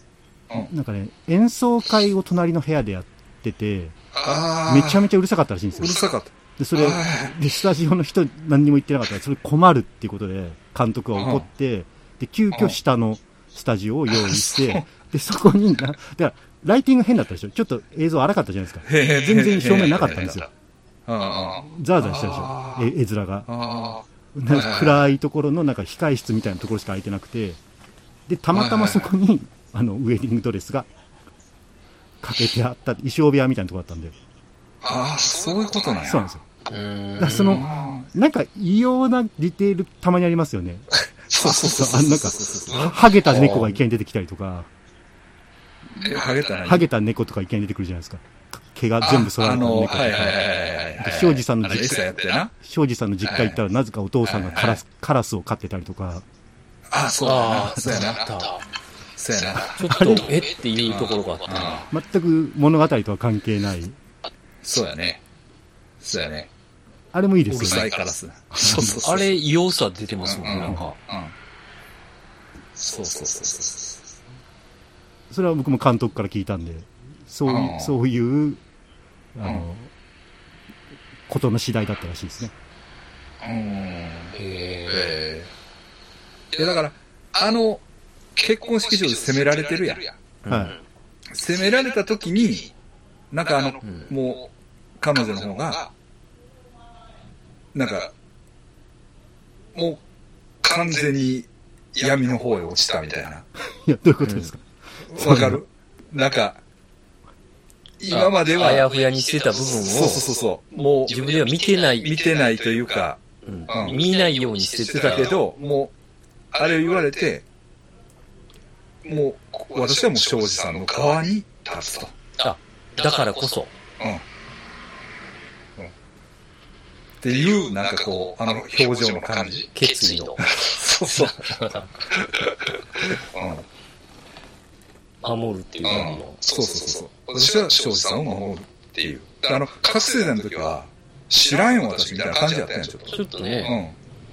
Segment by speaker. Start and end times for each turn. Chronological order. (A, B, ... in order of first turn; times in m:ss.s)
0:00.6-0:04.0 A
0:04.1-0:05.1 B
0:04.7-0:06.0 A
0:05.8-0:07.4 B
0:06.6-0:20.5 A
0:11.2-0:11.5 B
0:12.5-0:12.8 B
0:14.1-0:14.8 B
0:18.8-0:20.5 B
0:21.1-0:22.9 B
0:21.7-0:23.5 A
0:23.5-0:25.1 B
0:24.3-0:27.6 A
0:28.3-0:30.9 A
0:28.5-0:29.1 B
0:32.2-0:34.2 A
0:34.8-0:36.3 B
0:36.1-0:36.4 A
0:36.7-0:37.7 C
0:37.2-0:44.7 A
0:37.4-0:38.1 B
0:41.3-0:43.1 B
0:43.3-0:43.7 C
0:46.0-0:46.9 B
0:46.7-0:50.4 A
0:49.0-0:52.5 B
0:51.0-0:52.1 A
0:52.6-0:56.2 A
0:53.2-0:53.6 B
0:54.2-0:54.8 B
0:56.9-0:58.3 B
0:57.2-0:58.6 C
0:59.2-1:00.2 B
0:59.7-1:01.8 C
0:59.9-1:00.3 A
1:00.9-1:01.9 B
1:01.9-1:04.0 A
1:04.6-1:05.2 B
1:06.0-1:06.5 B
1:07.1-1:07.9 A
1:07.5-1:09.4 B
1:08.5-1:09.0 A
1:08.7-1:11.0 C
1:10.2-1:11.3 B
1:12.8-1:14.0 B
1:15.3-1:18.6 A
1:17.4-1:17.9 B
1:19.4-1:19.9 A
1:21.3-1:22.5 A
1:23.4-1:25.5 B
1:24.4-1:25.1 C
1:26.5-1:27.8 B
1:28.4-1:30.1 B
1:30.4-1:30.8 C
1:30.5-1:30.8 A
1:31.3-1:32.7 B
1:33.3-1:35.9 B
1:37.7-1:38.1 B
1:39.8-1:40.0 B
1:40.6-1:43.5 B
1:43.7-1:45.6 A
1:44.2-1:44.5 C
1:45.1-1:46.6 B
1:48.0-1:48.9 B
1:48.1-1:50.3 C
1:49.8-1:51.4 B
1:51.0-1:52.2 C
1:51.9-1:54.0 B
1:53.4-1:55.4 C
1:54.9-1:55.9 B
1:56.5-1:57.4 B
1:59.0-2:02.2 B
2:02.4-2:03.7 C
2:04.0-2:04.2 B
2:07.2-2:09.7 B
2:09.8-2:10.5 C
2:10.4-2:13.6 B
2:11.1-2:11.9 C
2:15.2-2:16.4 C
2:15.8-2:24.0 B
2:23.1-2:23.8 C